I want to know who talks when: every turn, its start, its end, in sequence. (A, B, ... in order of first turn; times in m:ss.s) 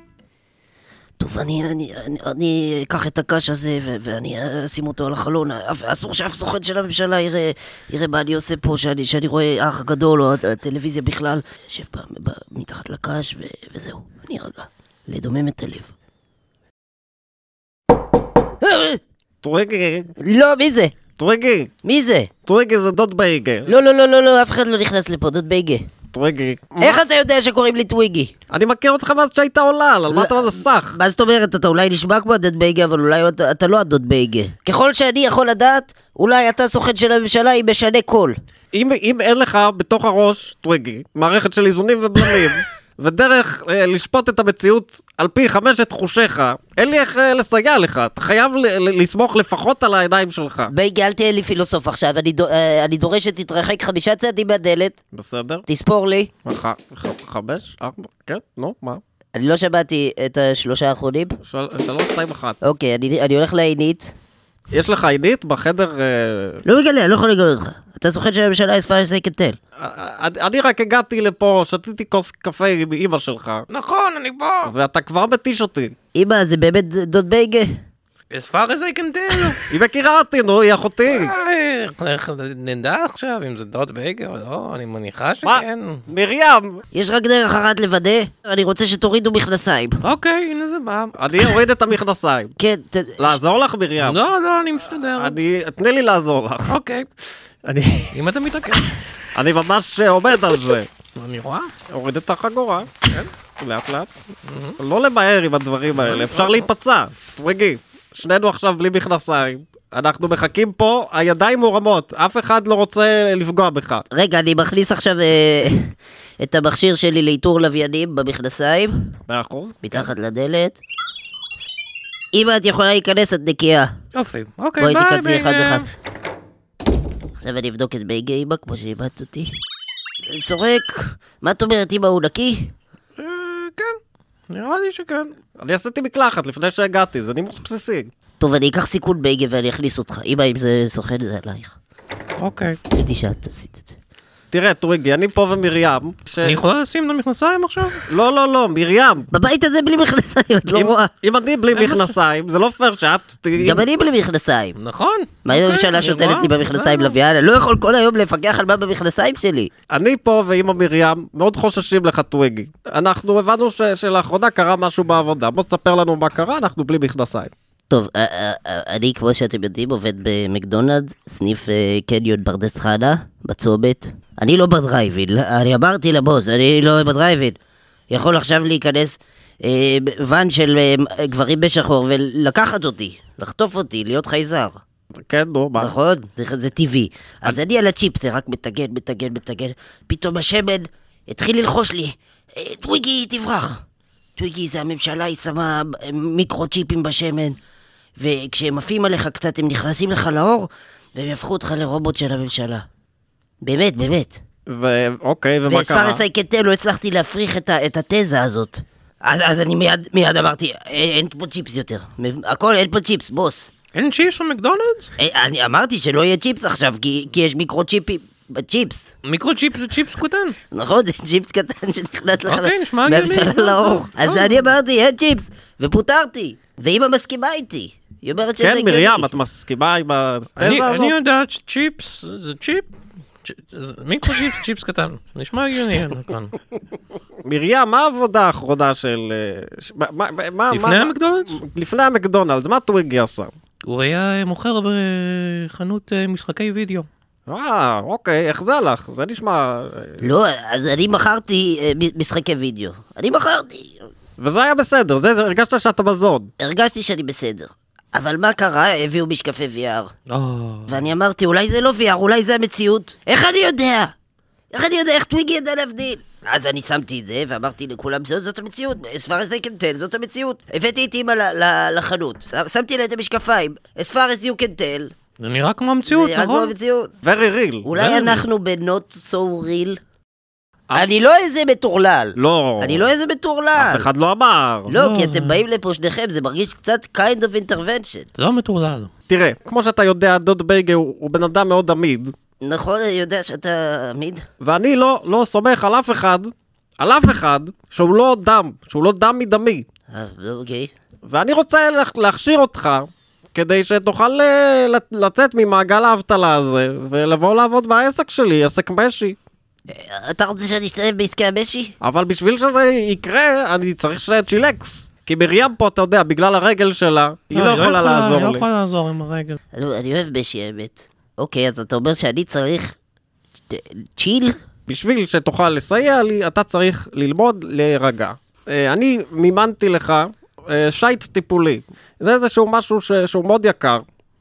0:01.2-0:15.9 A
0:18.6-0:19.0 A
0:19.4-0:20.1 B
0:20.2-0:21.0 A
0:21.2-0:21.7 B
0:21.8-0:22.3 A
0:22.5-0:23.7 B
0:23.7-0:25.9 A
0:26.1-0:27.0 B
0:26.8-0:28.3 A
0:28.5-0:31.0 B
0:30.1-0:38.4 A
0:38.7-0:50.7 B
0:50.7-0:55.0 A
0:55.1-0:55.6 B
0:55.7-0:56.3 A
0:56.4-0:59.0 B
0:59.4-1:01.4 A
1:01.5-1:02.6 B
1:02.6-1:04.1 A
1:04.7-1:06.6 B
1:06.6-1:09.6 A
1:09.8-1:13.7 B
1:13.7-1:14.7 C
1:14.6-1:16.0 B
1:16.1-1:17.8 A
1:18.3-1:19.6 C
1:19.7-1:21.3 B
1:21.1-1:26.0 C
1:25.4-1:26.8 B
1:26.9-1:30.0 A
1:30.0-1:31.5 C
1:31.2-1:32.5 B
1:32.6-1:33.4 A
1:33.2-1:34.2 B
1:34.0-1:35.4 C
1:35.2-1:36.8 B
1:36.7-1:37.1 C
1:37.6-1:38.1 B
1:38.1-1:38.9 C
1:39.4-1:40.9 B
1:41.2-1:41.8 C
1:41.9-1:44.1 B
1:44.5-1:44.8 C
1:44.8-1:54.0 B
1:46.0-1:46.7 C
1:54.1-1:59.0 A
1:59.3-2:00.0 B
1:59.8-2:00.8 A
2:02.3-2:03.9 A
2:04.1-2:05.9 C
2:04.8-2:05.9 A
2:07.4-2:09.5 A
2:10.3-2:12.7 A
2:13.2-2:15.3 C
2:15.6-2:18.1 B
2:18.4-2:21.8 A
2:22.4-2:22.8 C
2:22.9-2:24.0 A
2:24.5-2:26.6 B
2:26.4-2:28.1 C
2:28.1-2:29.3 B
2:29.3-2:31.1 A
2:30.7-2:33.8 B
2:31.7-2:32.2 C
2:33.6-2:34.8 A
2:34.8-2:37.2 C
2:35.4-2:39.7 A
2:39.9-2:47.5 B
2:47.9-2:57.6 A
2:58.1-3:04.8 A
3:05.2-3:05.9 B
3:05.8-3:13.8 A
3:14.4-3:17.6 A
3:18.2-3:22.9 A
3:23.6-3:24.4 A
3:24.7-3:26.2 B
3:25.7-3:33.7 A
3:33.9-3:35.1 C
3:35.2-3:39.1 A
3:39.2-3:40.6 C
3:40.7-3:49.3 A
3:42.4-3:44.7 C
3:48.6-3:51.1 B
3:50.6-3:52.9 C
3:53.4-3:56.6 C
3:57.5-4:03.5 B
4:00.7-4:01.6 C
4:03.8-4:07.1 C
4:07.5-4:10.2 B
4:10.2-4:14.1 A
4:14.4-4:16.5 B
4:16.6-4:20.1 A
4:20.3-4:21.1 C
4:20.9-4:24.1 A
4:24.7-4:35.1 A
4:35.4-4:36.7 C
4:36.1-4:37.1 A
4:37.2-4:38.4 B
4:37.8-4:40.0 A
4:38.0-4:38.3 C
4:40.9-4:44.1 A
4:42.4-4:43.1 B
4:43.8-4:44.9 B
4:44.9-4:48.3 A
4:44.9-4:45.6 C
4:48.4-4:49.1 C
4:49.3-4:52.3 B
4:52.6-4:54.4 A
4:54.6-4:59.9 B
5:00.1-5:00.9 A
5:01.3-5:09.4 B
5:09.9-5:12.0 A
5:12.0-5:18.7 B
5:17.5-5:19.6 C
5:19.7-5:22.9 A
5:23.7-5:24.6 A
5:24.9-5:34.0 B